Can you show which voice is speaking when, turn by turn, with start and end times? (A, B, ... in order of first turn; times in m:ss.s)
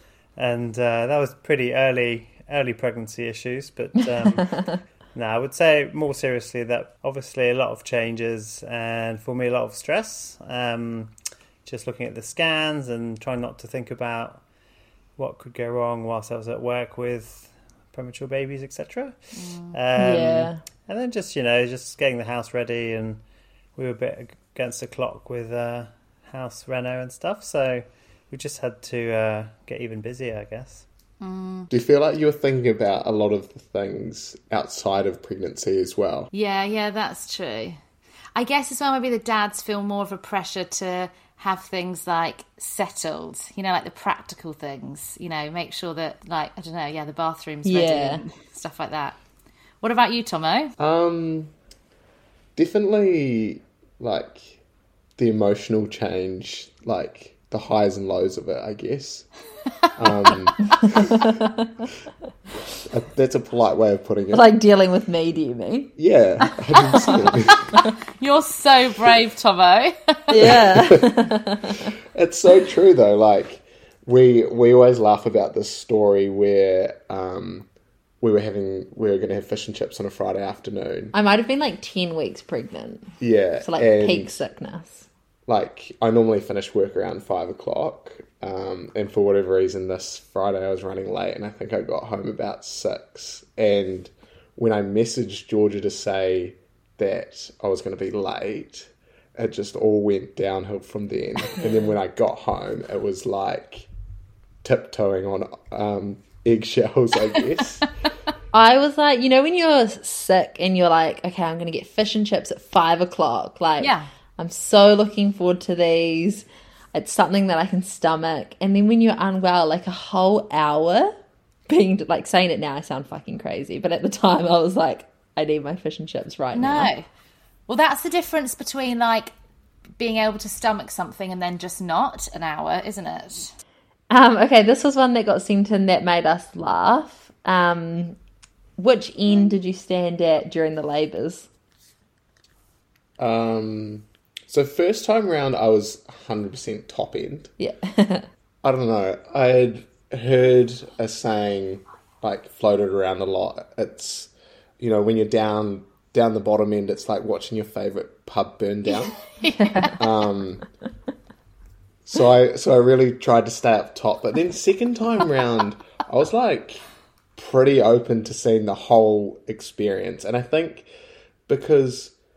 0:00.4-0:11.1 A
0:11.6-0:14.4 A
0:15.2-0:19.2 A
0:19.3-0:19.7 B
0:19.7-0:23.2 A
0:20.0-0:20.6 C
0:23.8-0:30.8 A
0:31.2-0:31.7 B
0:31.7-0:36.3 D
0:36.3-0:37.8 B
0:38.3-0:49.2 B
0:47.6-0:48.2 C
0:49.8-0:50.7 B
0:50.8-0:51.5 D
0:52.6-0:54.6 D
0:55.2-0:59.2 D
1:00.0-1:01.2 D
1:00.9-1:01.5 C
1:02.9-1:04.4 D
1:04.3-1:05.9 C
1:06.0-1:07.7 D
1:08.2-1:10.3 B
1:10.3-1:11.9 C
1:10.5-1:11.1 D
1:12.1-1:17.7 D
1:18.2-1:21.1 D
1:21.1-1:25.1 C
1:23.2-1:24.4 D
1:25.5-1:43.9 D
1:44.6-1:47.9 D
1:48.5-2:01.2 C
1:53.8-1:54.1 B
2:01.7-2:06.9 C
2:06.5-2:07.0 B
2:07.7-2:09.3 B
2:10.0-2:13.5 B
2:14.1-2:18.2 C
2:18.8-2:21.5 C
2:23.2-2:27.5 D
2:27.6-2:28.3 C
2:28.6-2:39.2 D
2:39.3-2:40.0 B
2:39.6-2:39.9 C
2:39.8-2:40.6 D
2:42.0-2:46.8 D
2:47.4-2:50.9 D
2:51.5-2:52.1 D